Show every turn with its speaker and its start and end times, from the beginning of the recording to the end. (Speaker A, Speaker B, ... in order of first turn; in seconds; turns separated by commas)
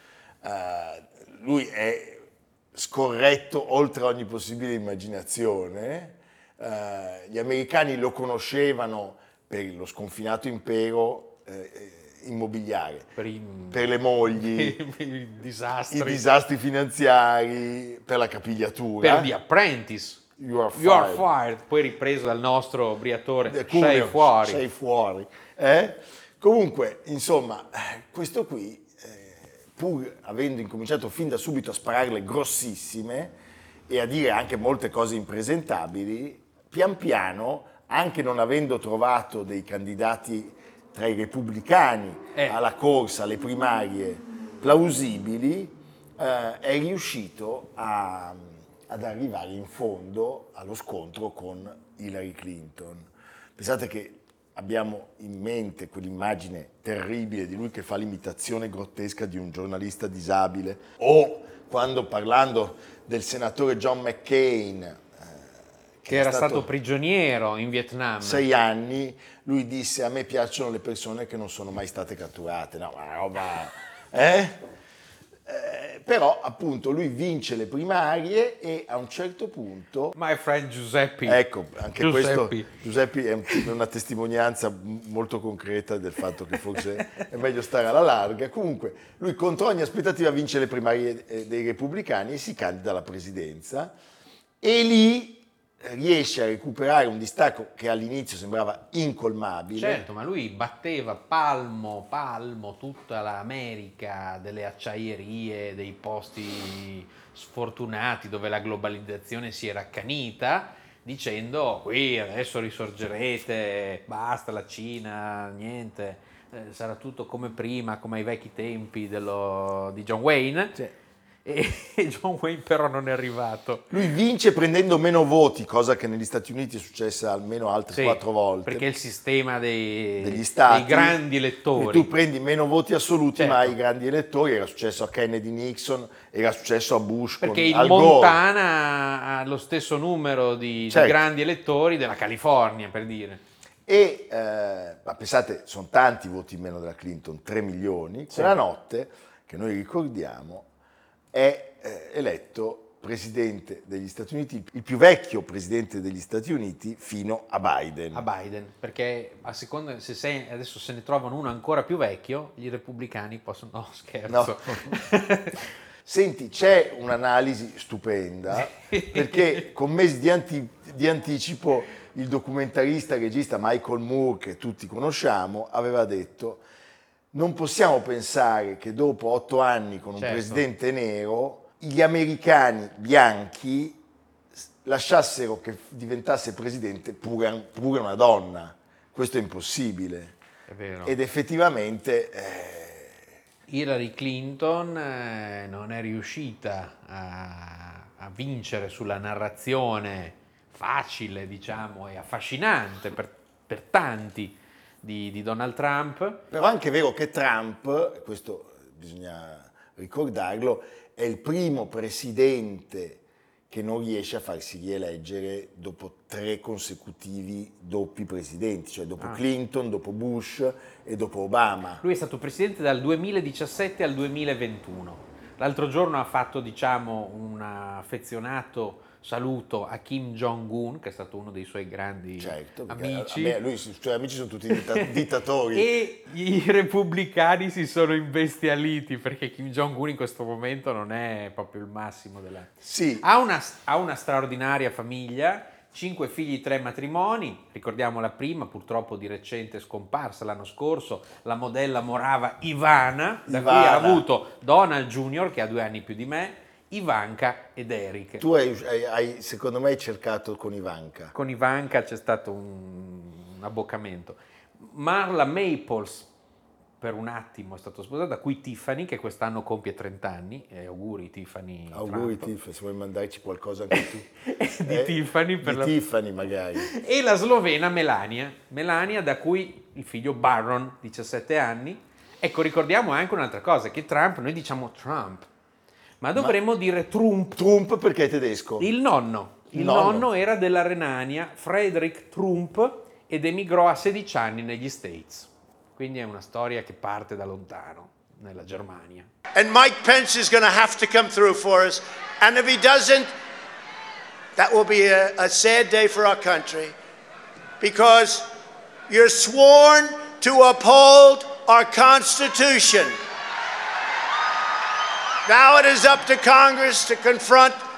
Speaker A: 0.4-13.2, Speaker B: 13.2-16.2, Speaker A: 13.7-14.8, Speaker A: 15.9-19.3, Speaker B: 19.0-24.6, Speaker A: 20.4-21.3, Speaker A: 23.5-33.4, Speaker A: 33.9-65.4, Speaker A: 66.0-66.7, Speaker B: 66.1-68.5, Speaker A: 68.2-74.6, Speaker A: 75.5-80.2, Speaker B: 80.2-81.4, Speaker A: 81.2-94.0, Speaker B: 82.0-82.7, Speaker A: 94.6-100.0, Speaker B: 99.8-120.8, Speaker B: 121.5-123.9, Speaker A: 123.9-128.9, Speaker B: 127.9-132.1, Speaker A: 130.2-131.2, Speaker A: 131.7-138.4, Speaker B: 133.4-133.8, Speaker B: 137.4-143.4, Speaker A: 140.9-141.2, Speaker A: 143.9-150.7, Speaker B: 148.3-148.6, Speaker A: 151.3-158.3, Speaker B: 158.1-165.6, Speaker A: 164.3-165.0, Speaker A: 166.1-176.6, Speaker B: 168.5-169.7, Speaker A: 177.3-184.0, Speaker B: 180.2-180.7, Speaker A: 184.8-190.4, Speaker B: 190.7-191.1, Speaker A: 191.0-193.3, Speaker B: 193.7-206.5, Speaker A: 206.5-222.0, Speaker B: 222.0-233.6, Speaker A: 232.4-235.9, Speaker B: 234.7-235.1, Speaker B: 235.7-258.4, Speaker A: 242.8-243.2, Speaker A: 253.5-254.3, Speaker A: 258.4-261.3, Speaker B: 261.3-266.3, Speaker B: 267.0-272.5, Speaker A: 271.9-274.3, Speaker B: 273.9-276.0, Speaker A: 274.8-276.9, Speaker B: 276.8-285.5, Speaker B: 286.2-287.6, Speaker A: 287.6-288.9, Speaker B: 288.8-299.3, Speaker A: 289.7-290.3, Speaker C: 299.6-303.3, Speaker C: 304.6-307.0, Speaker C: 307.8-308.5, Speaker C: 309.1-313.2, Speaker C: 315.5-317.8